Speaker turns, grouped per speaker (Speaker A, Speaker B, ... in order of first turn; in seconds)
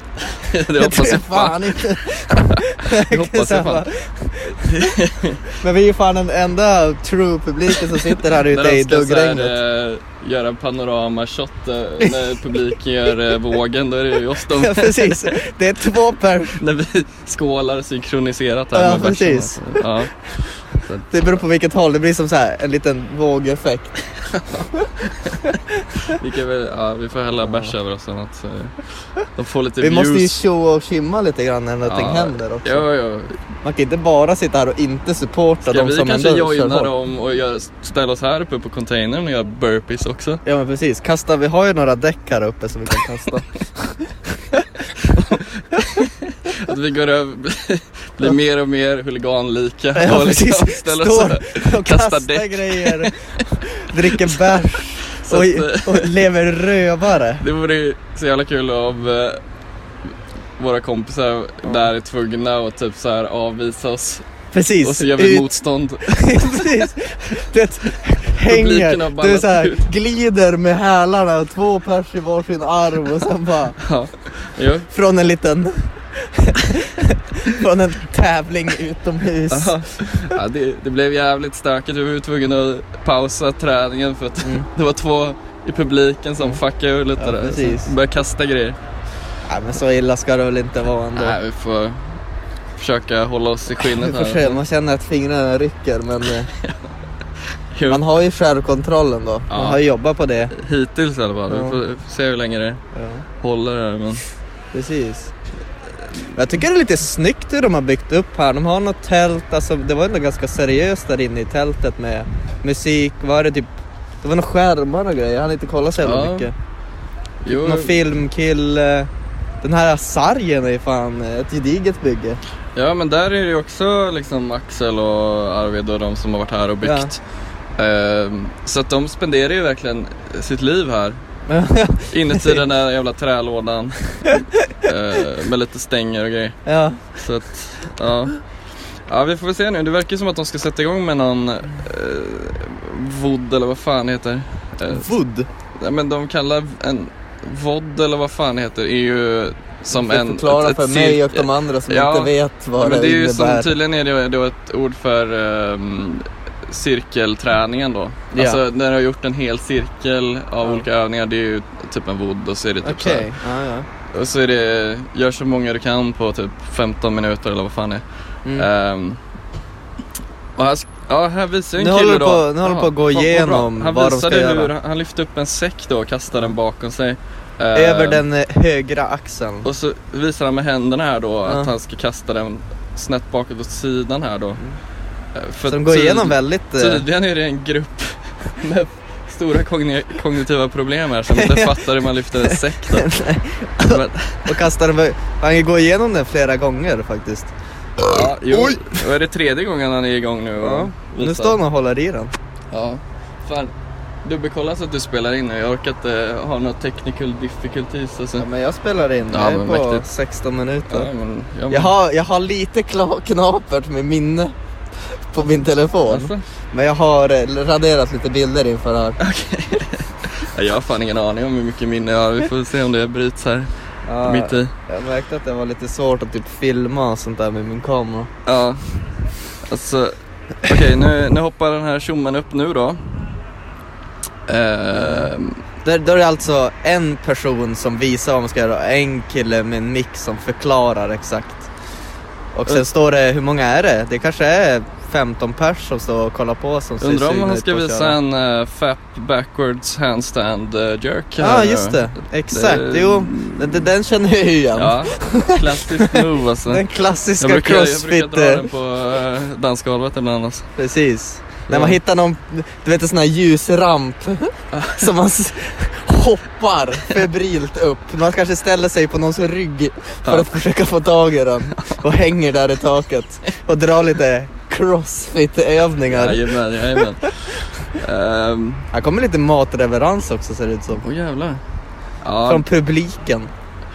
Speaker A: 0.3-1.8, 2.5-3.9, 4.5-5.5, 8.2-15.3, 16.5-21.4, 24.2-30.4, 31.8-33.4, 35.6-40.4, 45.0-53.4, 54.0-54.5, 55.1-56.2, 57.4-59.4, 60.6-64.3, 64.8-66.8, 68.4-69.8, 73.8-74.9, 79.5-88.8, 91.2-92.1, 92.8-94.6, 96.5-96.8, 97.7-98.0, 99.5-99.8, 100.5-102.8, 103.4-104.2, 116.0-116.5, 117.4-117.9, 122.7-127.2, 127.8-131.2, 132.1-136.6, 137.1-138.4, 139.1-145.1, 145.8-163.3, 164.1-168.0, 168.5-169.2, 170.6-178.2, 179.6-184.6, 185.3-193.1, 193.8-194.5, 198.0-201.6, 202.7-203.7, 204.2-208.5, 209.3-210.0, 210.9-211.9, 216.1-216.4, 219.2-224.7, 228.4-228.9, 229.6-233.2, 234.5-235.6, 247.0-253.8, 254.7-256.8, 257.4-260.7, 261.7-262.0, 264.7-265.1, 271.8-272.0, 276.1-278.9, 281.0-281.6, 282.2-282.6
Speaker B: 0.8-4.8, 5.6-9.5, 14.5-16.6, 18.7-19.8, 21.1-23.9, 27.4-27.7, 29.8-32.8, 33.6-36.9, 40.4-45.4, 49.9-57.4, 64.5-65.5, 66.0-73.8, 74.9-80.2, 87.2-87.9, 89.5-91.4, 93.8-96.5, 97.9-100.5, 101.5-101.8, 102.9-103.2, 104.7-105.3, 106.3-113.7, 114.2-116.5, 117.5-119.1, 119.6-122.4, 126.8-127.1, 131.5-132.6, 136.7-137.0, 144.9-145.5, 149.9-153.7, 158.3-158.6, 162.8-163.9, 171.8-174.7, 177.7-179.7, 181.4-181.7, 185.7-187.1, 191.3-197.5, 198.5-198.9, 200.6-202.3, 208.4-211.1, 211.7-214.5, 215.1-219.2, 224.0-228.3, 234.9-235.3, 235.8-241.7, 242.5-248.2, 251.4-258.7, 260.8-276.4, 278.9-281.0, 282.4-283.5